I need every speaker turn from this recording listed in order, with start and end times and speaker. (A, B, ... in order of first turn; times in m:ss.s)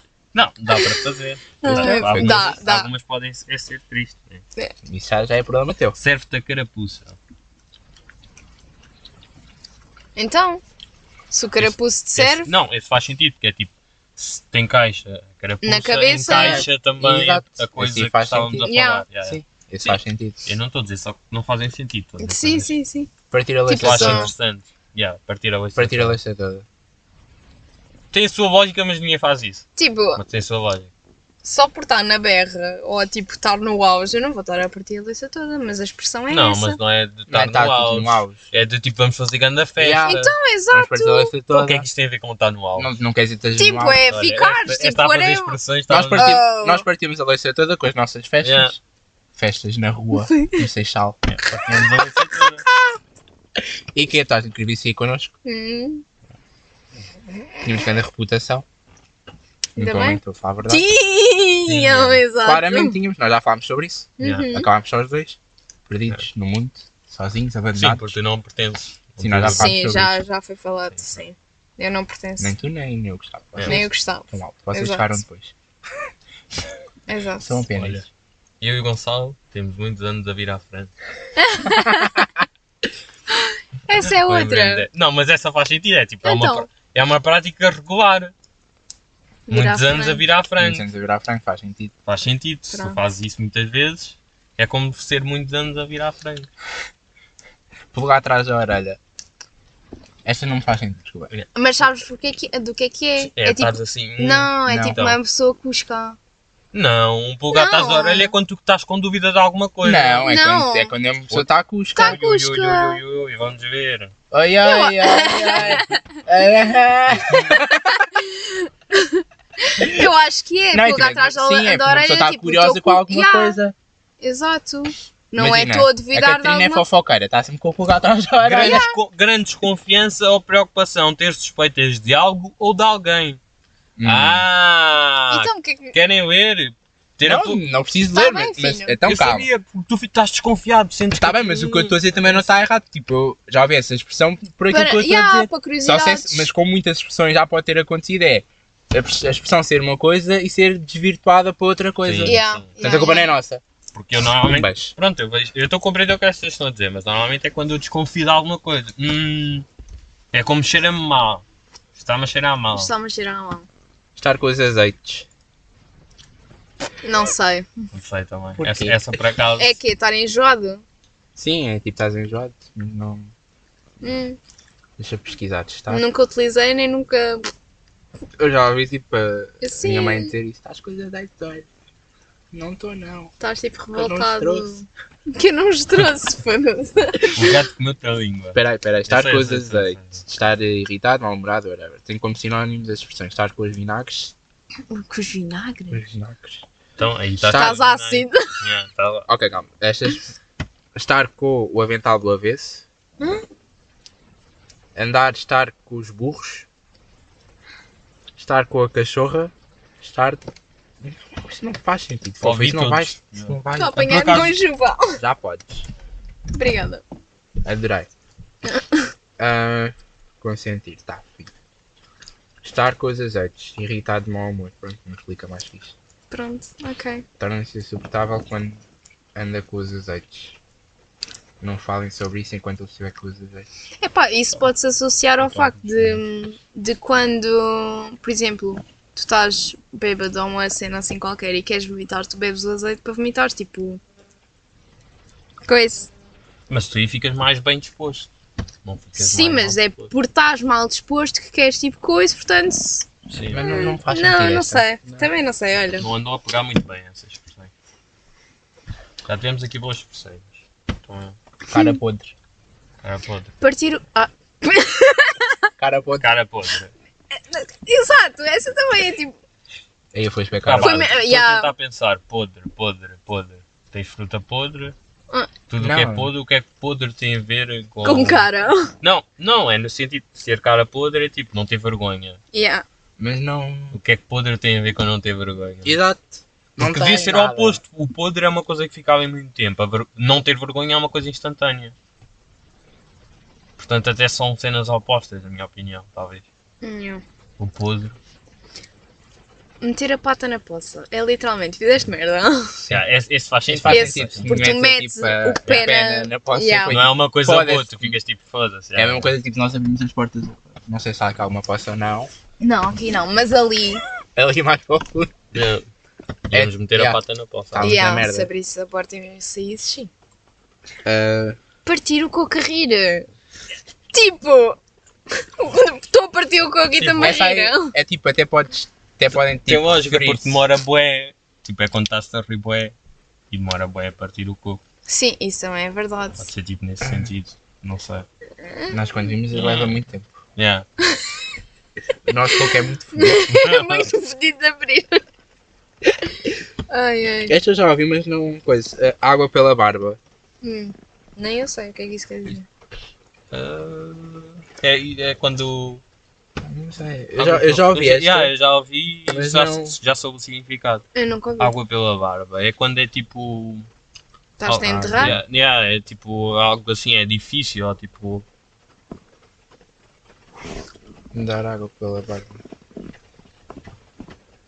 0:00.3-0:04.4 A
0:01.6-0:02.9 B
0:01.7-0:02.5 C
0:04.8-0:06.0 C
0:06.0-0:07.2 A
0:10.2-0:10.6 B
0:11.3-0:12.5 B
0:11.6-0:22.7 A
0:15.6-0:16.7 B
0:16.3-0:18.7 C
0:18.6-0:19.0 B
0:19.2-0:20.4 C
0:22.2-0:23.1 B
0:23.3-0:24.3 C
0:23.7-0:24.3 B
0:23.8-0:26.2 A
0:25.8-0:26.6 C
0:28.1-0:30.9 A
0:29.8-0:30.2 B
0:31.4-0:36.8 B
0:36.3-0:40.3 A
0:37.3-0:38.4 C
0:39.8-0:41.9 C
0:40.0-0:41.3 B
0:41.5-0:42.9 A
0:42.8-0:44.0 C
0:43.6-0:45.6 B
0:44.1-0:46.4 A
0:45.9-0:48.8 C
0:46.1-0:46.8 B
0:48.4-0:48.7 A
0:49.4-0:52.1 C
0:50.2-0:50.6 B
0:51.3-0:52.7 A
0:53.9-0:55.3 C
0:55.4-0:56.0 B
0:57.6-0:58.6 C
0:59.8-1:00.8 C
0:59.8-1:03.0 B
1:01.7-1:02.2 A
1:02.4-1:08.1 C
1:04.2-1:04.7 B
1:04.2-1:04.4 A
1:07.7-1:09.7 A
1:09.2-1:10.2 C
1:09.5-1:12.5 B
1:12.4-1:15.5 C
1:13.6-1:13.8 A
1:13.6-1:15.2 B
1:17.1-1:17.7 B
1:17.4-1:18.0 C
1:17.7-1:18.0 A
1:18.6-1:20.9 A
1:21.4-1:22.2 B
1:23.3-1:24.8 B
1:23.9-1:28.3 A
1:26.2-1:26.7 B
1:29.5-1:30.2 B
1:29.5-1:30.8 A
1:30.6-1:31.9 C
1:32.0-1:36.5 A
1:32.7-1:33.0 B
1:37.9-1:39.0 C
1:40.2-1:41.3 C
1:41.5-1:46.2 B
1:43.2-1:45.2 A
1:44.7-1:45.0 C
1:46.7-1:50.3 A
1:47.5-1:48.3 B
1:49.8-1:52.2 C
1:50.3-1:50.9 B
1:51.3-1:54.1 A
1:51.9-1:53.0 B
1:54.3-1:58.0 C
1:54.6-1:56.0 B
1:57.3-2:03.6 B
1:59.8-2:00.1 C
2:00.7-2:03.7 C
2:04.2-2:06.8 B
2:05.4-2:08.9 C
2:08.4-2:13.4 A
2:08.6-2:08.9 B
2:14.0-2:14.4 C
2:14.0-2:17.6 A
2:15.3-2:16.0 B
2:17.2-2:19.5 C
2:18.1-2:19.0 B
2:19.0-2:22.4 A
2:21.1-2:33.6 C
2:24.7-2:26.5 B
2:32.0-2:32.7 A
2:32.2-2:33.3 B
2:33.9-2:39.6 A
2:34.4-2:34.9 C
2:40.3-2:41.4 A
2:42.0-2:42.9 A
2:42.7-2:43.7 B
2:44.2-2:45.3 C
2:47.0-2:47.7 B
2:47.9-2:49.8 A
2:48.6-2:49.0 C
2:49.6-2:50.8 B
2:51.4-2:53.3 C
2:54.0-2:54.4 B
2:55.0-2:56.0 C
2:55.9-2:57.5 B
2:58.4-3:01.6 C
2:59.6-3:00.3 B
3:02.5-3:03.3 C
3:03.4-3:07.5 B
3:03.9-3:04.8 C
3:07.3-3:10.2 A
3:08.5-3:14.3 C
3:14.9-3:16.0 B
3:15.9-3:16.6 C
3:17.0-3:19.3 A
3:17.4-3:17.7 C
3:17.5-3:18.5 B
3:19.3-3:20.4 C
3:20.9-3:22.8 C
3:24.9-3:26.7 C
3:28.4-3:30.5 C
3:31.0-3:34.4 C
3:32.4-3:34.6 A
3:33.8-3:35.2 B
3:35.1-3:35.8 C
3:36.5-3:37.0 B
3:37.6-3:38.1 C
3:38.6-3:39.1 B
3:39.4-3:41.5 C
3:42.6-3:46.0 C
3:46.3-3:47.2 B
3:47.4-3:48.8 C
3:49.3-3:50.6 C
3:51.6-3:53.7 C
3:54.0-4:04.0 B
3:55.4-3:56.2 A
4:05.6-4:06.1 B
4:06.7-4:08.3 A
4:08.8-4:10.1 A
4:09.2-4:13.1 B
4:13.3-4:13.9 A
4:13.5-4:15.3 C
4:13.6-4:16.1 B
4:16.0-4:17.7 A
4:19.2-4:21.4 A
4:21.7-4:22.3 C
4:21.7-4:22.0 B
4:23.0-4:23.5 A
4:23.6-4:25.6 B
4:25.8-4:26.3 C
4:26.2-4:26.9 A
4:27.4-4:29.4 B
4:30.1-4:31.1 C
4:30.6-4:34.9 A
4:30.8-4:31.7 B
4:35.7-4:38.5 A
4:35.8-4:36.3 C
4:38.0-4:38.9 B
4:39.0-4:42.4 A
4:42.5-4:42.8 B
4:43.2-4:44.0 C
4:43.9-4:46.0 A
4:45.8-4:47.8 C
4:46.8-4:51.9 A
4:53.8-4:56.4 A
4:56.8-4:57.2 B
4:57.6-4:58.1 A
4:59.8-5:02.8 B
5:02.9-5:04.6 A
5:03.7-5:08.1 C
5:03.9-5:07.0 B
5:06.9-5:09.3 A
5:09.0-5:12.3 C
5:12.6-5:14.0 B
5:14.4-5:15.3 C
5:15.5-5:15.8 A
5:16.5-5:18.0 A
5:16.5-5:17.2 C
5:17.7-5:18.5 C
5:17.8-5:20.1 B
5:21.0-5:21.6 C
5:21.8-5:23.3 B
5:24.1-5:24.8 B
5:25.4-5:27.9 B
5:26.9-5:27.4 A
5:27.2-5:30.6 C
5:29.6-5:32.9 A
5:33.5-5:34.8 A
5:35.1-5:36.5 B
5:36.4-5:38.3 A
5:37.0-5:37.3 C
5:38.6-5:38.9 B
5:38.9-5:40.4 C
5:39.5-5:40.0 A
5:40.6-5:40.8 A
5:42.2-5:43.7 C
5:43.1-5:45.2 B
5:43.5-5:44.1 A
5:46.9-5:47.6 B
5:47.5-5:50.2 C
5:50.6-5:52.6 B
5:53.5-5:56.0 A
5:56.6-5:58.5 C
5:57.4-6:01.0 A
5:59.3-6:00.0 C
6:01.1-6:01.7 B
6:01.6-6:03.9 A
6:04.6-6:05.4 B
6:04.7-6:08.4 A
6:04.8-6:05.4 C
6:11.3-6:12.6 C